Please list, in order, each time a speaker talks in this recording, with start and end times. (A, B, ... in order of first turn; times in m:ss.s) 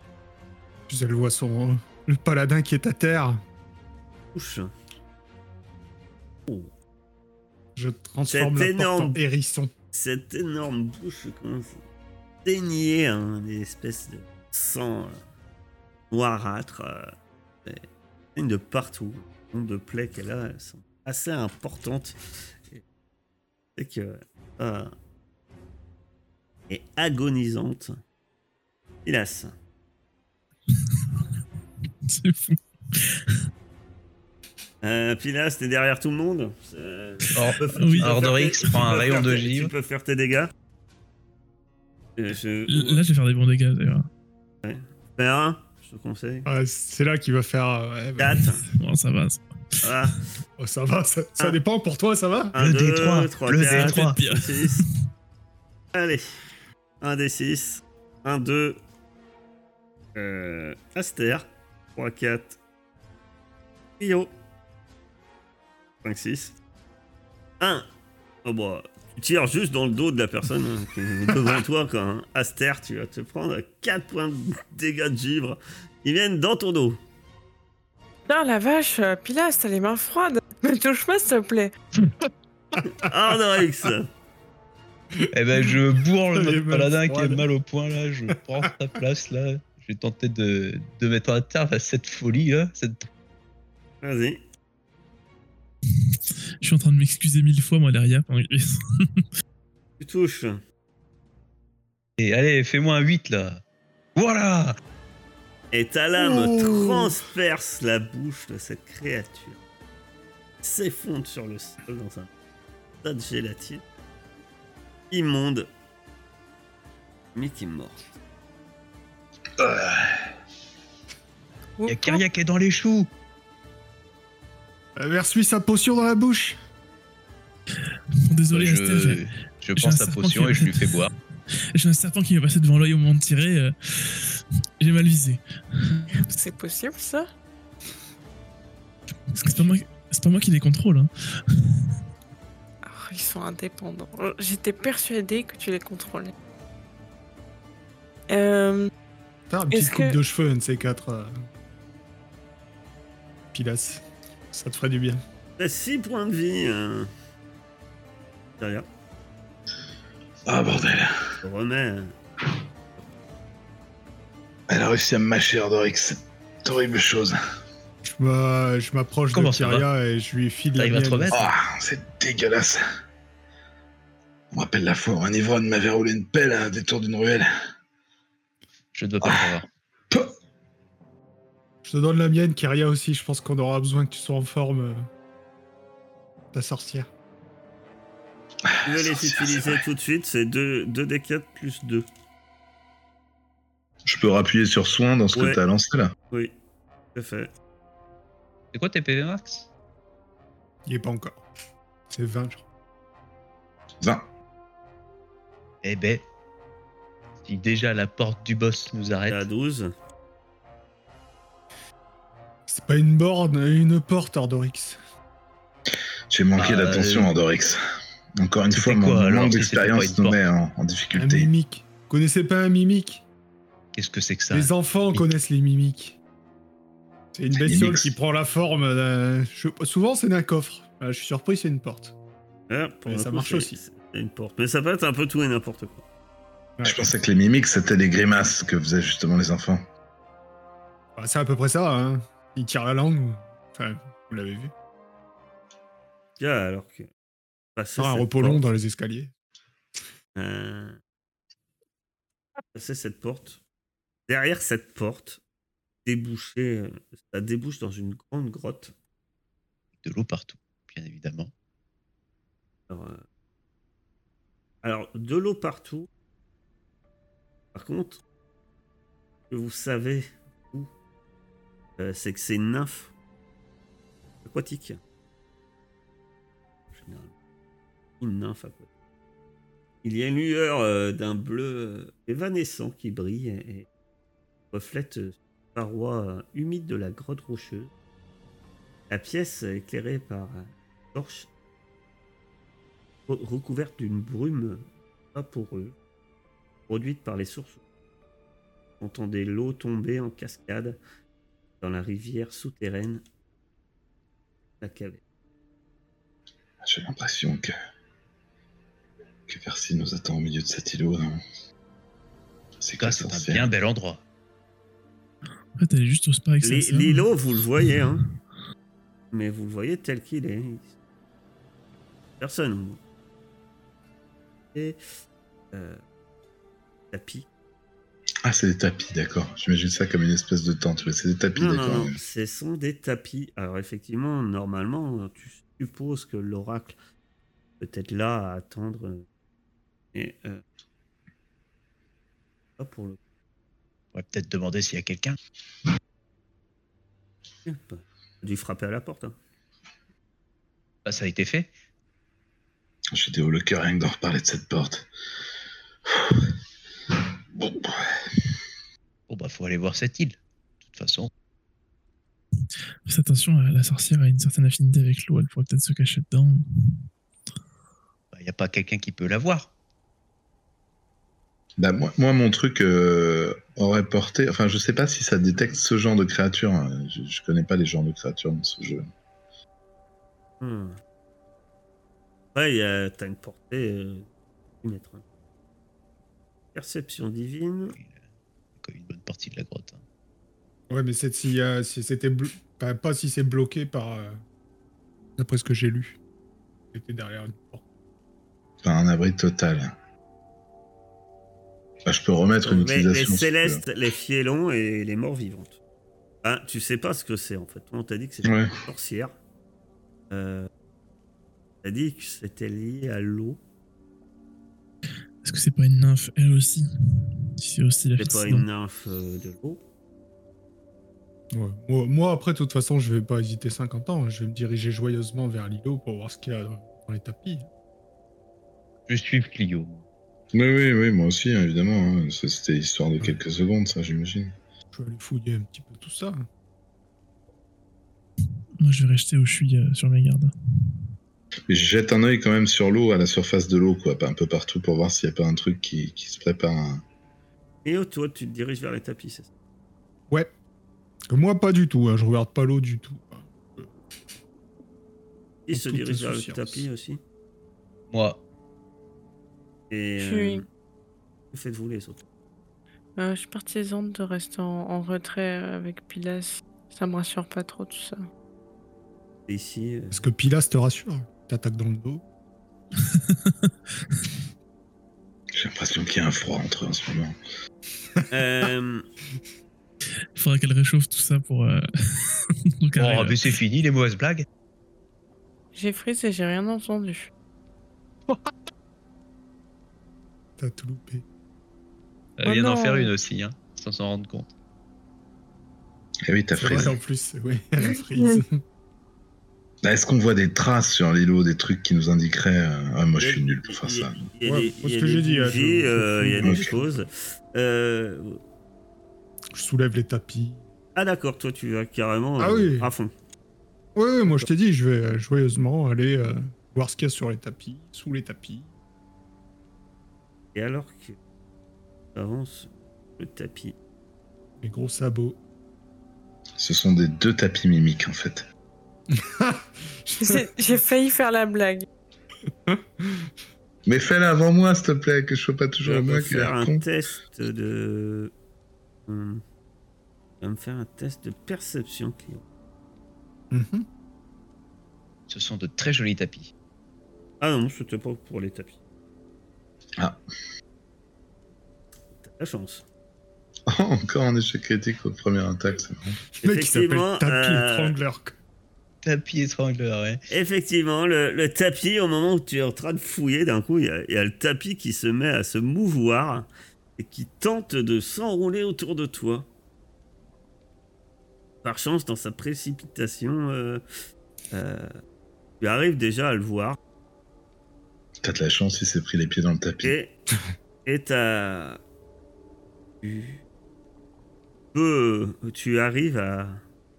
0:00.9-0:03.4 A
0:04.3-0:04.7 B
0:07.8-0:09.7 A
0:08.3-0:09.2 B
0:09.9-0:11.8 B
0:12.4-0:15.2 B
0:16.1-0:17.1 B
0:18.4-0:22.2 B
0:23.8-0:24.9 B
0:26.7-0:28.0 B
0:29.0-0:29.5 B
0:30.7-0:31.2 C
0:32.0-0:33.4 C
0:34.8-0:40.5 B
0:37.3-0:39.7 D
0:37.7-0:38.1 C
0:42.2-0:43.0 B
0:42.7-0:44.1 C
0:44.6-0:46.5 B
0:46.4-0:48.4 A
0:48.2-0:48.6 B
0:48.7-0:49.8 C
0:49.8-0:50.3 B
0:50.6-0:52.6 A
0:52.5-0:54.8 B
0:52.6-0:54.2 D
0:53.7-0:55.1 C
0:55.9-0:56.3 B
0:57.0-0:58.8 B
1:00.1-1:02.6 B
1:04.0-1:04.3 B
1:06.0-1:06.5 B
1:07.6-1:07.8 B
1:08.4-1:17.0 B
1:18.3-1:21.7 E
1:22.7-1:23.0 A
1:23.0-1:24.1 B
1:25.3-1:33.1 D
1:26.3-1:27.4 A
1:28.3-1:28.7 A
1:34.0-1:34.4 B
1:36.6-1:39.3 C
1:40.0-1:40.6 B
1:42.2-1:43.6 D
1:44.2-1:44.8 D
1:45.7-1:49.6 B
1:46.2-1:47.2 A
1:50.6-1:52.3 B
1:53.0-1:53.8 B
1:55.1-1:55.7 B
1:57.3-1:58.1 B
1:59.6-2:00.2 F
2:01.8-2:02.2 E
2:01.8-2:03.1 D
2:05.0-2:06.6 A
2:08.2-2:11.1 C
2:08.5-2:11.1 D
2:11.7-2:16.2 C
2:16.1-2:17.3 E
2:19.3-2:21.9 C
2:22.8-2:26.3 E
2:28.3-2:28.9 E
2:29.5-2:31.3 A
2:29.7-2:30.2 E
2:33.5-2:35.2 A
2:35.6-2:37.1 B
2:38.6-2:38.9 B
2:40.5-2:41.2 F
2:41.4-2:42.1 B
2:44.7-2:47.4 F
2:48.0-2:51.4 A
2:49.3-2:49.9 D
2:50.7-2:51.4 D
2:51.3-2:52.8 F
2:54.5-2:57.5 F
2:58.9-2:59.6 D
2:59.2-2:59.5 F
3:01.8-3:05.1 A
3:06.5-3:07.1 A
3:08.6-3:09.8 F
3:08.8-3:12.0 B
3:14.0-3:16.1 F
3:15.3-3:15.6 B
3:17.1-3:17.5 B
3:18.7-3:19.6 D
3:20.8-3:21.4 A
3:22.1-3:22.6 A
3:25.8-3:26.2 D
3:27.4-3:29.4 D
3:29.3-3:29.9 B
3:32.7-3:35.0 A
3:36.3-3:37.8 F
3:36.6-3:37.3 D
3:38.4-3:41.5 F
3:38.7-3:40.4 D
3:41.1-3:43.2 A
3:43.9-3:45.3 D
3:44.5-3:46.2 A
3:47.3-3:52.1 A
3:47.5-3:48.1 F
3:52.7-3:56.0 B
3:53.1-3:53.8 A
3:56.8-3:57.0 A
3:56.8-3:59.8 F
4:01.2-4:04.7 A
4:06.4-4:07.1 B
4:07.8-4:08.6 B
4:08.0-4:09.3 A
4:10.4-4:11.0 B
4:12.7-4:13.6 B
4:14.3-4:15.4 B
4:16.0-4:18.9 B
4:20.0-4:21.5 D
4:22.9-4:23.2 B
4:24.8-4:26.1 B
4:27.7-4:28.2 B
4:29.5-4:30.9 B
4:32.0-4:33.1 B
4:34.4-4:35.0 B
4:36.9-4:37.3 B
4:38.2-4:38.9 B
4:40.0-4:43.9 B
4:44.7-4:47.9 B
4:49.1-4:51.5 B
4:53.3-4:55.9 B
4:56.9-4:57.8 B
4:59.0-5:01.0 B
5:01.8-5:03.2 B
5:04.8-5:05.2 B
5:06.8-5:07.7 F
5:09.5-5:11.4 F
5:12.8-5:13.7 F
5:13.0-5:14.2 D
5:15.8-5:17.3 C
5:16.6-5:18.2 B
5:19.3-5:20.9 B
5:22.4-5:23.0 B
5:24.7-5:25.0 B
5:25.7-5:26.0 B
5:27.1-5:27.4 B
5:28.4-5:32.2 F
5:31.6-5:37.0 B
5:37.8-5:39.2 B
5:40.1-5:40.6 B
5:42.8-5:43.2 B
5:44.1-5:45.4 D
5:47.6-5:49.4 B
5:51.0-5:51.7 D
5:53.1-5:55.1 F
5:56.1-5:56.5 F
5:57.5-5:58.0 F
5:59.3-6:01.3 D
6:03.0-6:07.0 C
6:08.3-6:09.7 D
6:11.8-6:19.1 F
6:20.6-6:21.0 B
6:22.5-6:24.3 B
6:24.8-6:25.2 B
6:26.7-6:28.0 B
6:28.8-6:30.0 D
6:30.9-6:34.4 A
6:35.4-6:36.2 A
6:36.9-6:37.8 A
6:38.8-6:39.9 F
6:42.0-6:43.8 F
6:42.6-6:45.8 B
6:46.4-6:49.3 B
6:48.4-6:48.7 F
6:50.3-6:50.7 B
6:51.8-6:53.6 B
6:55.4-6:58.6 C
6:58.2-6:59.8 B
7:01.5-7:07.7 A
7:09.1-7:10.0 D
7:10.5-7:14.5 F
7:14.9-7:16.4 A
7:18.8-7:20.5 C
7:21.7-7:27.0 F
7:27.8-7:29.5 B
7:31.3-7:33.9 A
7:35.7-7:37.2 B
7:35.7-7:36.8 A
7:38.1-7:38.4 D
7:39.9-7:40.6 B
7:40.2-7:40.6 E
7:41.5-7:42.2 B
7:43.2-7:48.2 E
7:49.5-7:50.3 B
7:50.1-7:52.2 A
7:53.0-7:54.3 C
7:55.5-7:57.3 F
7:58.3-7:59.0 B
8:00.4-8:03.4 C
8:03.0-8:04.4 D
8:05.7-8:07.3 E
8:10.6-8:11.2 A
8:12.4-8:14.5 D
8:12.4-8:13.1 E
8:16.3-8:17.0 F
8:16.6-8:18.6 A
8:19.8-8:24.2 F
8:23.2-8:28.4 B
8:24.4-8:27.0 A
8:26.4-8:26.7 F
8:29.5-8:30.6 A
8:31.0-8:33.1 B
8:32.4-8:32.9 A
8:34.0-8:38.7 A
8:40.5-8:41.2 B
8:42.1-8:43.8 B
8:44.6-8:45.4 A
8:46.6-8:48.4 F
8:49.1-8:50.4 A
8:50.2-8:51.8 E
8:52.5-8:53.3 A
8:53.8-8:56.8 F
8:55.8-8:58.3 B
8:59.1-8:59.4 B
9:00.4-9:02.4 B
9:03.5-9:03.9 A
9:05.3-9:06.5 D
9:07.4-9:08.8 B
9:12.2-9:12.8 B
9:13.7-9:16.2 F
9:16.4-9:18.4 A
9:16.4-9:18.0 B
9:19.0-9:20.2 D
9:20.3-9:29.5 B
9:31.6-9:33.8 B
9:34.5-9:34.9 B
9:35.6-9:36.8 B
9:38.2-9:40.0 F
9:39.8-9:40.1 B
9:40.8-9:41.8 B
9:43.0-9:43.4 B
9:44.7-9:46.6 B